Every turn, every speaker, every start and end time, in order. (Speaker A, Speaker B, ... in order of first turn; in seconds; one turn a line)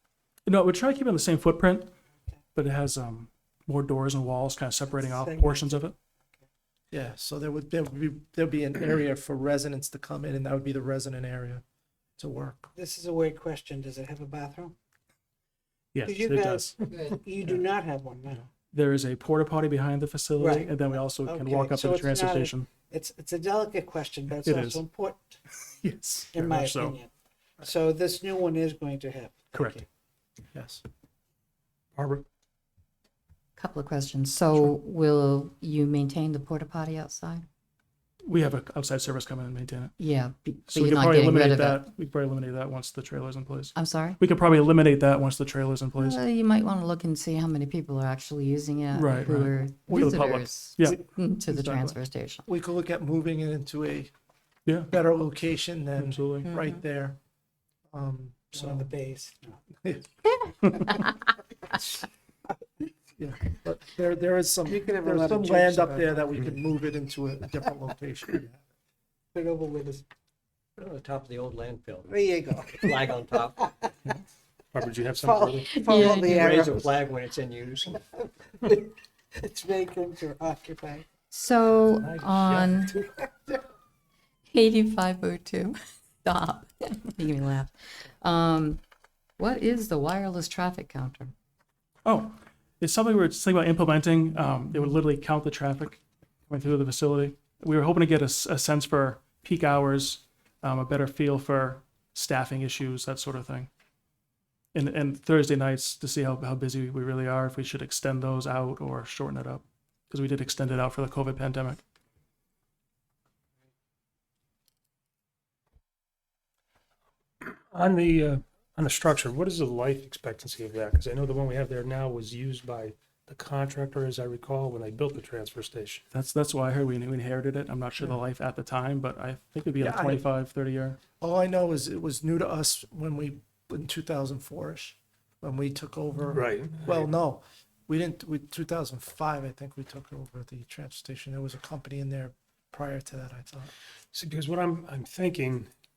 Speaker A: 0.5-1.9
Speaker A: 2.5-6.0
Speaker B: 4.9-5.9
Speaker C: 6.9-11.6
Speaker C: 12.2-12.7
Speaker B: 12.8-14.8
Speaker A: 15.9-16.7
Speaker B: 16.1-18.5
Speaker A: 18.7-22.7
Speaker B: 20.4-25.4
Speaker A: 24.4-24.8
Speaker A: 25.8-27.0
Speaker B: 26.3-27.1
Speaker B: 27.6-29.9
Speaker A: 29.5-29.8
Speaker C: 30.5-30.8
Speaker D: 32.0-32.2
Speaker E: 33.6-37.5
Speaker A: 38.2-39.9
Speaker E: 40.0-41.9
Speaker A: 40.7-46.2
Speaker E: 43.8-44.2
Speaker E: 46.0-52.5
Speaker A: 48.9-51.9
Speaker C: 49.9-50.3
Speaker C: 52.5-54.1
Speaker A: 54.7-54.9
Speaker C: 54.9-57.2
Speaker A: 56.0-56.5
Speaker E: 56.5-56.8
Speaker C: 57.9-58.9
Speaker B: 58.5-59.6
Speaker C: 59.8-60.0
Speaker C: 63.2-68.7
Speaker B: 64.7-66.4
Speaker B: 69.3-70.0
Speaker F: 70.8-72.1
Speaker B: 72.0-73.9
Speaker F: 72.9-73.6
Speaker D: 74.7-76.1
Speaker B: 75.2-77.1
Speaker E: 75.7-76.4
Speaker F: 76.1-78.0
Speaker B: 78.0-81.1
Speaker E: 81.3-83.0
Speaker F: 82.2-82.7
Speaker B: 82.6-83.6
Speaker E: 84.5-88.8
Speaker E: 89.4-91.3
Speaker A: 92.0-103.7
Speaker A: 104.8-111.8
Speaker D: 117.4-126.0
Speaker A: 126.1-131.0
Speaker C: 129.8-130.3
Speaker C: 131.2-143.7
Speaker D: 136.3-137.1
Speaker D: 144.1-145.7